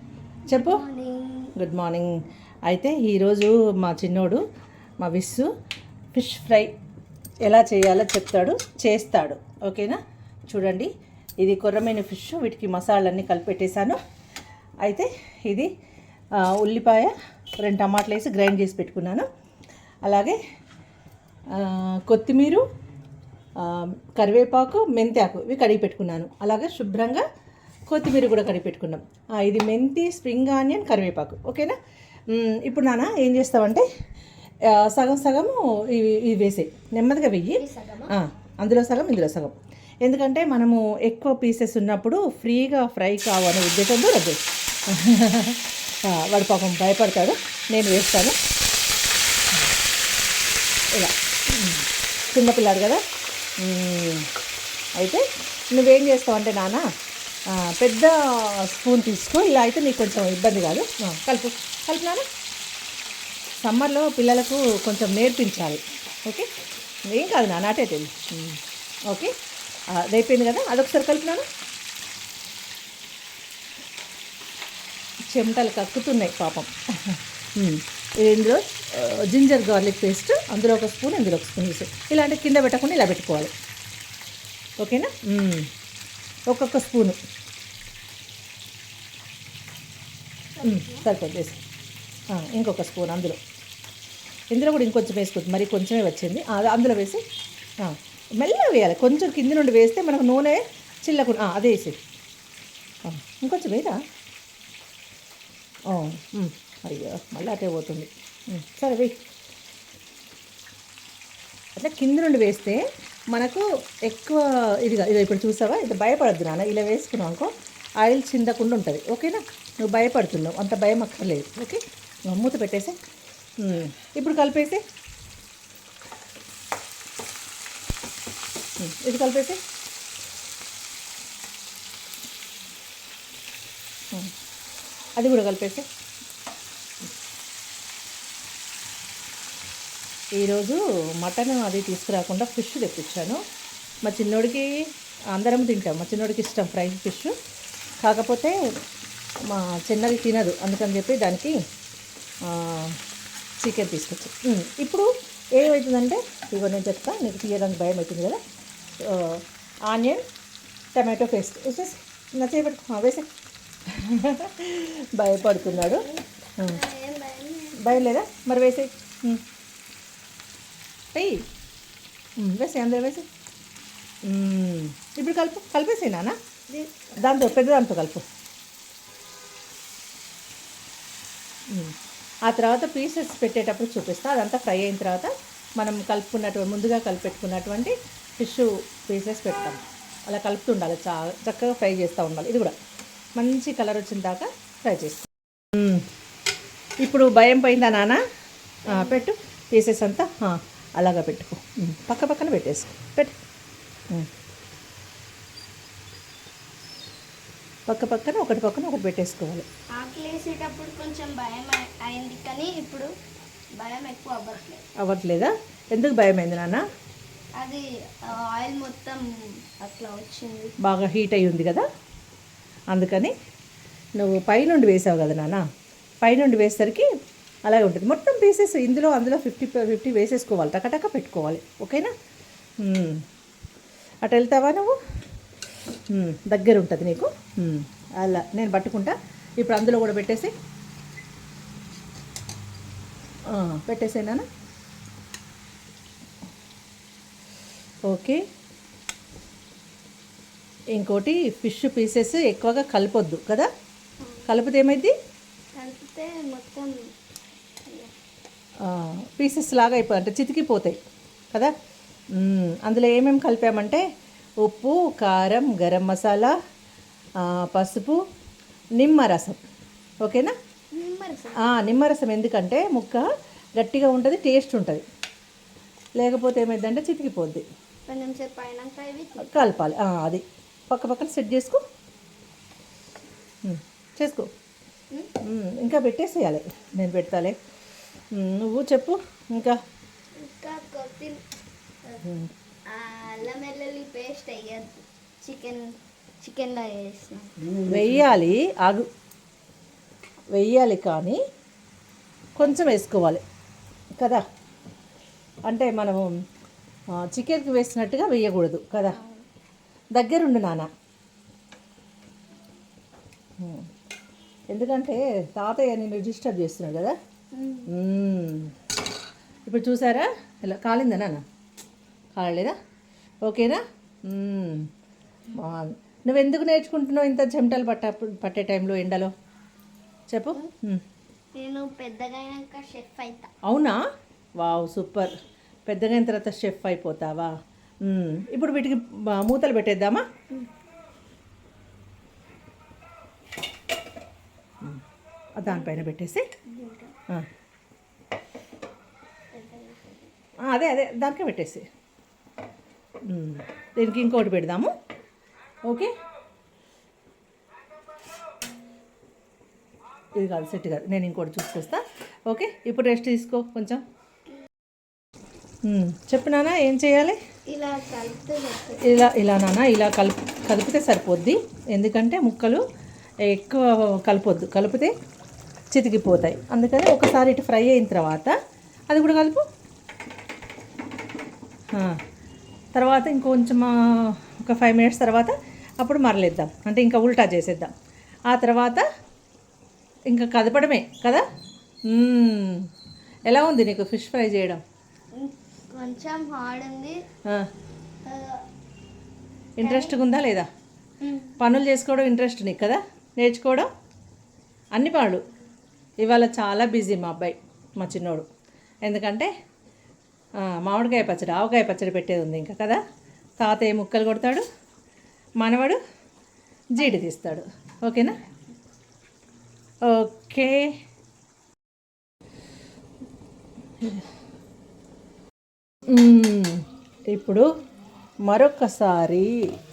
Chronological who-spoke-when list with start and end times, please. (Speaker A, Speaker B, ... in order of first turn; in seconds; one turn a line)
Speaker A: 0.5-1.5
Speaker B: 0.5-0.8
Speaker B: 1.6-4.4
Speaker B: 5.0-5.5
Speaker B: 6.1-6.7
Speaker B: 7.4-14.0
Speaker B: 14.8-15.7
Speaker B: 16.4-19.3
Speaker B: 20.0-20.4
Speaker B: 21.5-22.6
Speaker B: 23.6-27.2
Speaker B: 27.9-31.7
Speaker B: 32.3-33.8
Speaker B: 34.6-44.4
Speaker A: 37.5-38.1
Speaker B: 44.9-48.4
Speaker B: 50.9-53.0
Speaker B: 53.6-54.3
Speaker B: 55.0-56.8
Speaker B: 57.5-62.2
Speaker B: 63.6-66.5
Speaker B: 67.1-69.3
Speaker B: 69.9-71.5
Speaker B: 75.3-83.5
Speaker B: 84.8-85.7
Speaker B: 86.5-87.2
Speaker A: 90.5-91.1
Speaker B: 90.6-91.6
Speaker B: 92.3-93.4
Speaker B: 94.5-97.2
Speaker B: 97.8-102.0
Speaker B: 103.0-104.0
Speaker B: 105.9-109.2
Speaker B: 111.8-112.8
Speaker B: 113.3-117.5
Speaker B: 118.0-123.0
Speaker B: 123.6-124.8
Speaker B: 128.8-129.6
Speaker B: 135.2-135.8
Speaker B: 140.4-143.4
Speaker B: 144.0-144.7
Speaker B: 145.3-147.3
Speaker B: 148.0-148.6
Speaker B: 149.5-151.6
Speaker B: 152.4-153.0
Speaker B: 153.6-158.4
Speaker B: 159.0-160.2
Speaker B: 160.9-163.3
Speaker B: 163.9-166.0
Speaker A: 165.5-168.1
Speaker B: 167.8-169.4
Speaker B: 171.1-171.5
Speaker B: 172.4-173.2
Speaker B: 174.2-176.3
Speaker A: 176.7-177.5
Speaker B: 177.2-178.2
Speaker B: 181.7-181.9
Speaker B: 182.4-192.7
Speaker B: 193.4-196.1
Speaker B: 197.0-198.2
Speaker A: 198.8-199.3
Speaker B: 198.9-203.3
Speaker B: 207.9-209.7
Speaker A: 209.9-213.1
Speaker A: 213.8-214.9
Speaker B: 214.9-216.8
Speaker A: 217.6-220.8
Speaker B: 220.8-221.9
Speaker B: 222.9-223.3
Speaker B: 224.2-225.6
Speaker B: 226.2-227.1
Speaker B: 227.6-232.1
Speaker B: 232.8-233.2
Speaker B: 234.2-234.9
Speaker B: 236.1-240.5
Speaker B: 243.5-244.4
Speaker B: 248.1-248.4
Speaker B: 250.9-253.7
Speaker A: 254.2-254.5
Speaker B: 254.4-255.1
Speaker A: 255.7-257.1
Speaker A: 257.9-258.1
Speaker B: 258.8-261.0
Speaker B: 262.3-264.0
Speaker B: 264.6-266.5
Speaker B: 267.4-268.2
Speaker B: 269.0-269.6
Speaker B: 270.2-270.5
Speaker A: 270.9-271.6
Speaker B: 271.6-275.0
Speaker B: 276.2-277.6
Speaker A: 278.1-279.8
Speaker B: 279.4-281.8
Speaker B: 283.6-284.5
Speaker B: 285.4-287.6
Speaker B: 288.3-289.8
Speaker A: 290.4-291.4
Speaker A: 292.0-292.3
Speaker B: 292.2-292.5
Speaker A: 292.9-297.7
Speaker B: 297.8-299.1
Speaker B: 300.5-301.4
Speaker B: 302.6-303.4
Speaker B: 304.2-304.4
Speaker B: 305.7-306.3
Speaker B: 307.2-309.2
Speaker A: 309.1-309.4
Speaker B: 310.1-310.9
Speaker B: 313.6-313.9
Speaker B: 314.7-317.1
Speaker A: 317.5-317.9
Speaker B: 317.9-318.7
Speaker B: 319.6-321.4
Speaker B: 322.4-322.8
Speaker B: 323.4-324.9
Speaker B: 325.5-329.3
Speaker B: 330.3-331.0
Speaker A: 331.5-333.5
Speaker B: 333.6-334.0
Speaker B: 334.6-335.3
Speaker B: 335.9-337.5
Speaker B: 338.0-340.2
Speaker B: 345.6-346.5
Speaker A: 345.6-346.1
Speaker A: 346.7-347.1
Speaker A: 349.5-350.3
Speaker B: 350.6-351.9
Speaker B: 353.2-354.9
Speaker B: 355.8-356.1
Speaker B: 360.3-364.0
Speaker B: 365.8-367.4
Speaker A: 367.7-369.3
Speaker B: 369.0-372.8
Speaker B: 373.4-375.1
Speaker B: 375.9-378.5
Speaker B: 379.1-379.6
Speaker B: 381.9-382.2
Speaker B: 382.9-387.9
Speaker B: 388.5-389.1
Speaker B: 390.3-391.4
Speaker B: 392.1-392.9
Speaker B: 393.4-394.8
Speaker A: 395.3-397.2
Speaker A: 398.2-398.7
Speaker B: 399.8-400.7
Speaker A: 399.8-400.2
Speaker A: 401.2-401.6
Speaker B: 401.6-403.9
Speaker B: 404.9-405.4
Speaker B: 406.2-408.4
Speaker B: 409.0-409.5
Speaker B: 410.6-413.0
Speaker B: 413.6-414.6
Speaker B: 415.6-416.0
Speaker B: 416.9-418.4
Speaker A: 417.0-417.2
Speaker B: 420.0-420.9
Speaker B: 426.1-427.7
Speaker B: 428.4-429.6